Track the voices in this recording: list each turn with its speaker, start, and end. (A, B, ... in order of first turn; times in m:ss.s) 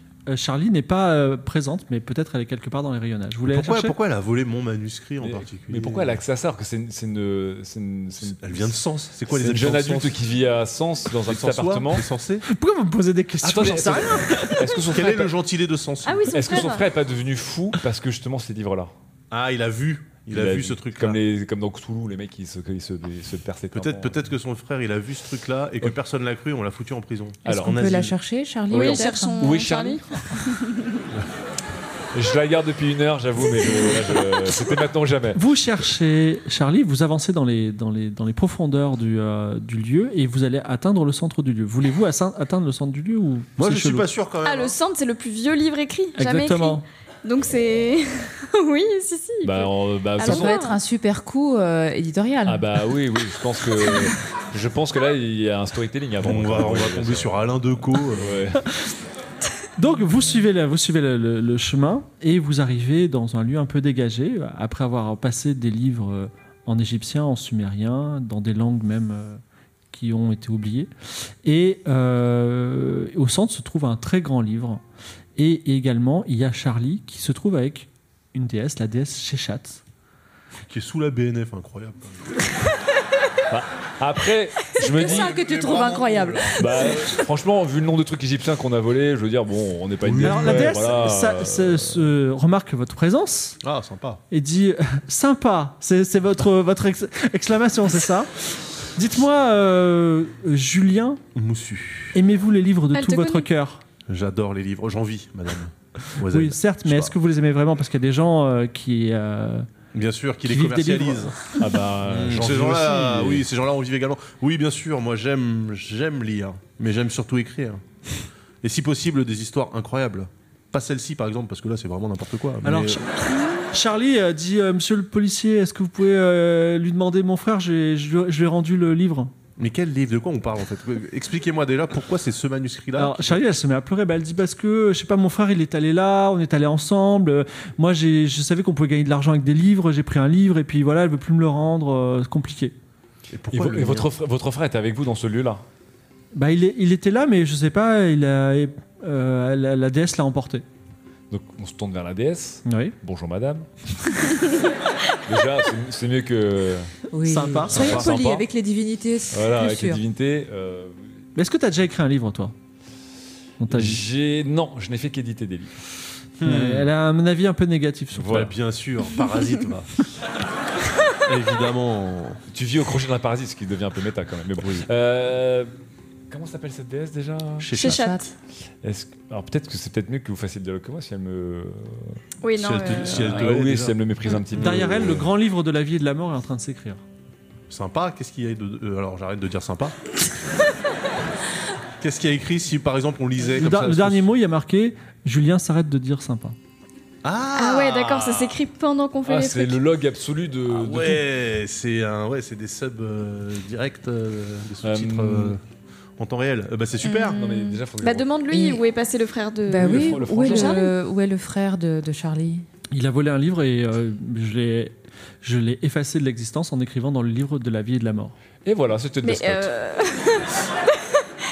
0:00.3-0:04.0 A
0:03.5-0:06.2 B
0:05.2-0:08.8 C
0:08.3-0:10.2 B
0:09.3-0:12.1 C
0:11.2-0:12.5 B
0:12.5-0:14.6 A
0:13.4-0:15.3 C
0:14.8-0:16.7 B
0:16.0-0:16.9 D
0:16.3-0:18.9 C
0:19.3-0:21.2 B
0:20.3-0:24.2 C
0:23.7-0:28.2 B
0:27.4-0:29.6 E
0:27.5-0:28.1 C
0:28.7-0:30.3 C
0:28.7-0:31.0 D
0:32.1-0:35.4 C
0:35.4-0:44.1 A
0:43.6-0:44.8 B
0:44.4-0:50.8 D
0:46.2-0:46.8 A
0:49.4-0:50.6 C
0:50.2-0:52.9 E
0:52.5-0:58.7 C
0:56.2-0:58.5 B
0:59.8-1:10.9 A
1:11.4-1:14.8 A
1:15.4-1:19.8 A
1:20.6-1:22.5 B
1:23.5-1:25.4 C
1:24.8-1:27.0 E
1:25.0-1:26.6 B
1:26.6-1:32.1 C
1:30.0-1:30.9 B
1:30.2-1:33.6 A
1:33.6-1:34.2 B
1:34.3-1:41.2 A
1:41.4-1:42.2 B
1:42.1-1:43.8 A
1:42.9-1:43.5 D
1:44.1-1:47.1 B
1:46.2-1:49.7 A
1:49.9-1:51.5 B
1:50.4-1:51.3 A
1:51.6-1:53.5 C
1:52.0-1:57.8 B
1:58.6-2:03.0 B
2:02.6-2:09.3 A
2:09.6-2:13.4 B
2:13.0-2:22.7 A
2:23.3-2:24.1 B
2:23.5-2:25.6 C
2:26.3-2:30.6 A
2:31.3-2:34.3 C
2:32.6-2:33.0 A
2:35.2-2:36.9 C
2:37.1-2:40.0 E
2:37.2-2:38.1 A
2:37.6-2:38.4 C
2:39.3-2:41.2 C
2:41.4-2:42.5 A
2:43.6-2:44.0 A
2:43.7-2:45.8 C
2:46.4-2:46.9 B
2:46.4-2:48.5 A
2:48.2-2:48.5 C
2:48.2-2:50.1 B
2:51.2-2:52.4 B
2:52.5-2:55.7 C
2:56.3-2:57.7 C
2:57.6-2:58.2 B
2:57.7-2:58.3 D
2:57.8-2:58.3 E
2:58.8-3:02.2 C
3:02.4-3:03.4 D
3:02.6-3:05.2 B
3:03.1-3:05.3 C
3:04.6-3:07.0 A
3:07.7-3:10.0 B
3:12.0-3:14.3 B
3:13.5-3:16.6 A
3:17.2-3:18.6 B
3:17.6-3:19.8 D
3:19.3-3:21.2 C
3:20.7-3:25.6 B
3:24.8-3:25.6 C
3:26.2-3:27.4 B
3:27.0-3:30.9 D
3:27.3-3:28.3 C
3:28.5-3:28.8 E
3:29.7-3:32.7 E
3:29.8-3:30.8 C
3:32.9-3:38.4 A
3:38.6-3:39.7 C
3:39.2-3:41.3 D